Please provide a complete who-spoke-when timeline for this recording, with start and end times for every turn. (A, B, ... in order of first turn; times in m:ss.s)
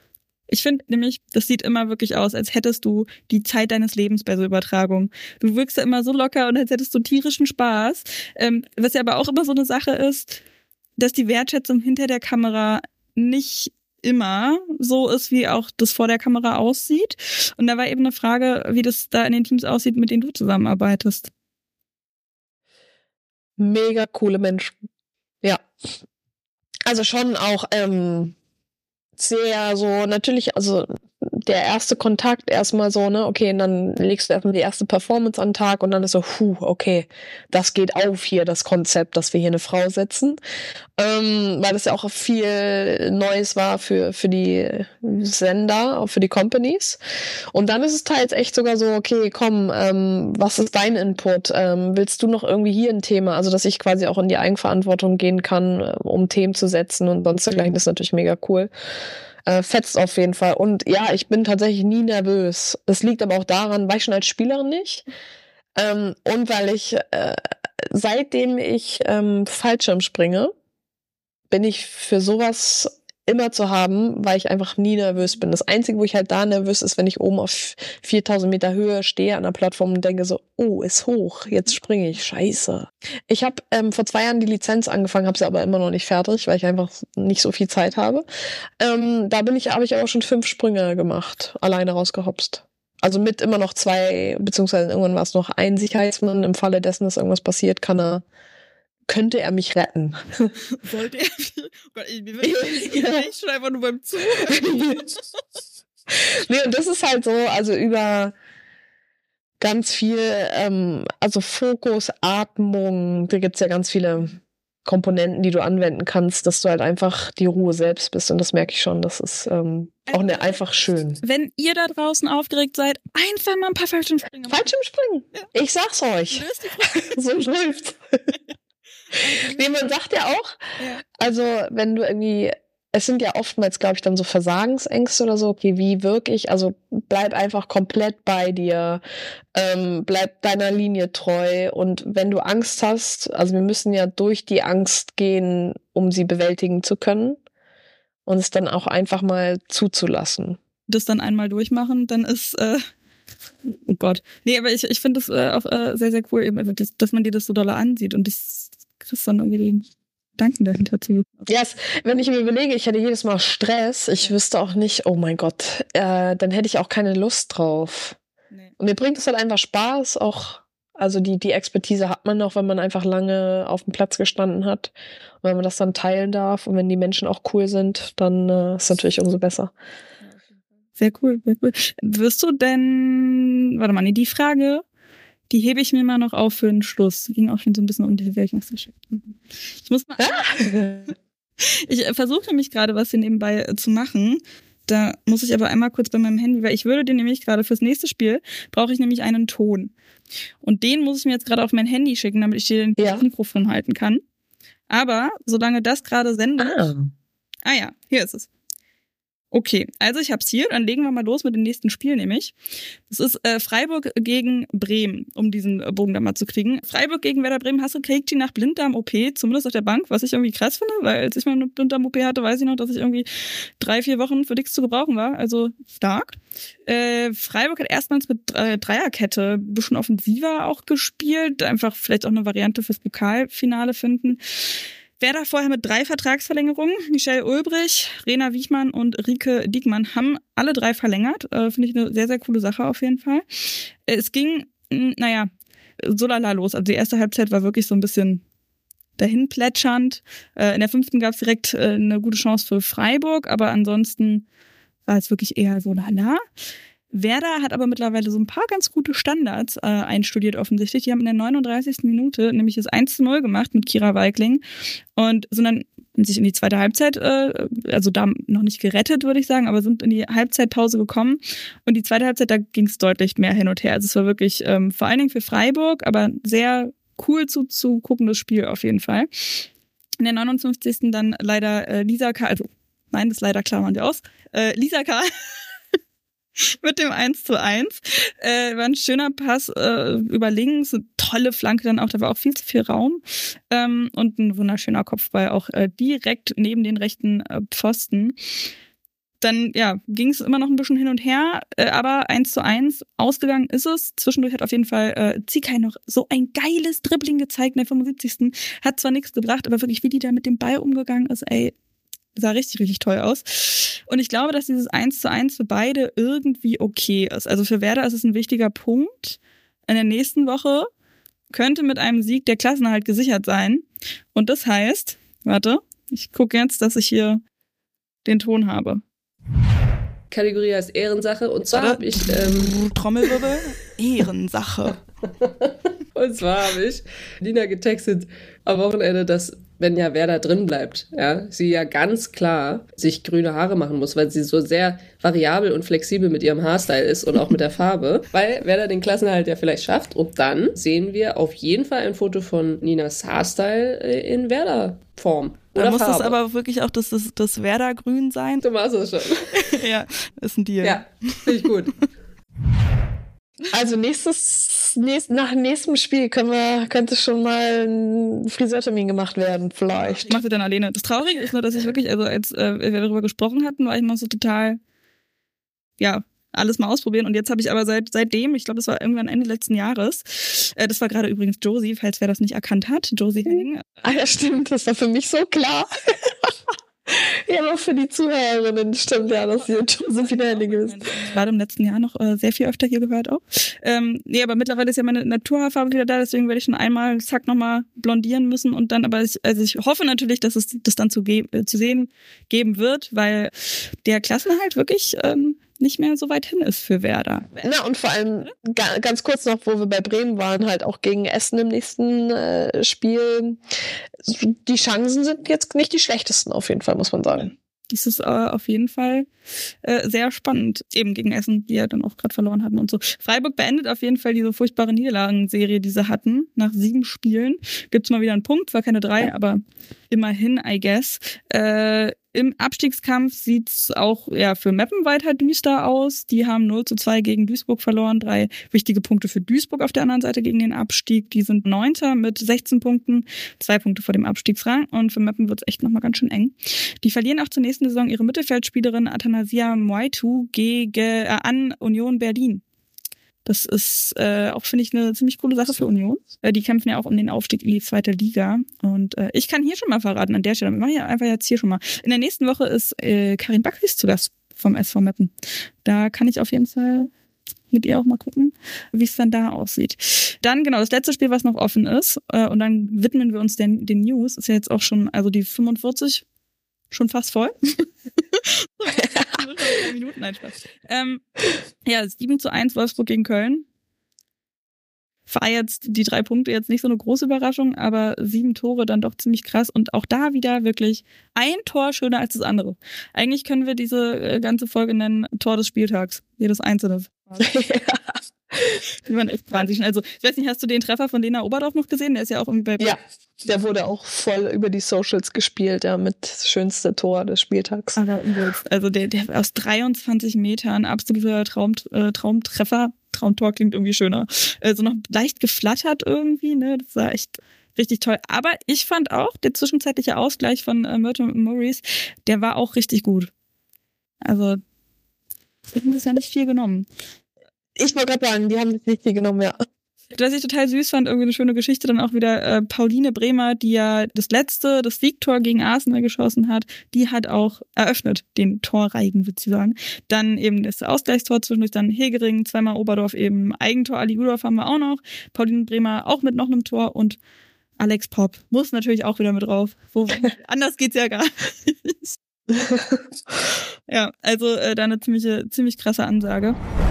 0:00.5-0:10.4 A
0:11.0-0:21.3 A
0:23.6-0:24.8 B
0:26.9-0:28.4 B
0:29.2-0:40.4 B
0:41.0-0:47.0 B
0:47.5-0:58.7 B
0:59.5-1:05.1 B
1:05.8-1:10.5 B
1:11.5-1:28.2 B
1:28.8-1:38.2 B
1:39.1-1:40.5 B
1:40.7-1:44.7 A
1:42.4-1:43.3 B
1:44.4-1:45.1 B
1:46.1-1:48.3 B
1:49.6-2:01.2 B
2:00.1-2:00.6 A
2:01.2-2:04.7 A
2:04.5-2:08.2 B
2:06.3-2:07.1 A
2:09.1-2:09.6 A
2:09.2-2:10.6 B
2:10.8-2:11.0 A
2:11.1-2:19.0 B
2:19.5-2:27.4 B
2:28.3-2:30.6 B
2:30.9-2:32.8 A
2:33.7-2:41.5 A
2:41.5-2:48.2 B
2:48.8-2:59.7 B
3:01.0-3:04.8 A
3:05.5-3:10.6 A
3:10.2-3:11.1 B
3:11.6-3:19.9 A
3:20.6-3:24.2 A
3:23.0-3:23.2 B
3:24.9-3:26.9 A
3:26.6-3:27.1 B
3:27.6-3:28.5 A
3:29.5-3:32.6 A
3:33.1-4:05.5 A
4:06.0-4:08.4 A
4:09.2-4:14.5 A
4:15.1-4:16.4 A
4:17.1-4:24.6 A
4:25.2-4:39.7 A
4:40.2-4:45.3 A
4:46.6-4:58.4 A
4:59.4-5:11.8 A
5:12.4-5:20.9 A
5:21.5-5:27.4 A
5:28.2-5:29.0 A
5:30.3-5:32.8 C
5:31.7-5:35.0 A
5:36.1-5:56.4 C
5:55.8-5:58.6 A
5:58.6-5:59.6 C
5:59.5-6:01.5 A
6:00.8-6:02.1 C
6:03.7-6:10.4 B
6:09.9-6:14.8 A
6:16.0-6:23.8 A
6:23.5-6:26.5 B
6:27.1-6:31.1 B
6:29.2-6:47.7 A
6:47.6-6:53.6 B
6:54.2-6:57.5 B
6:57.3-6:59.3 A
6:59.8-7:32.6 A
7:33.4-7:45.3 A
7:45.8-7:47.1 A
7:47.7-7:56.2 A
7:56.9-8:01.2 A
8:01.8-8:03.7 A
8:05.3-8:17.5 A
8:17.4-8:18.8 B
8:19.1-8:23.0 A
8:22.8-8:28.0 B
8:28.0-8:43.3 A
8:44.2-8:44.6 A
8:45.7-8:46.9 A
8:47.8-8:49.6 B
8:50.2-9:07.2 A
9:07.8-9:12.2 A
9:12.5-9:13.0 B
9:13.9-9:16.6 A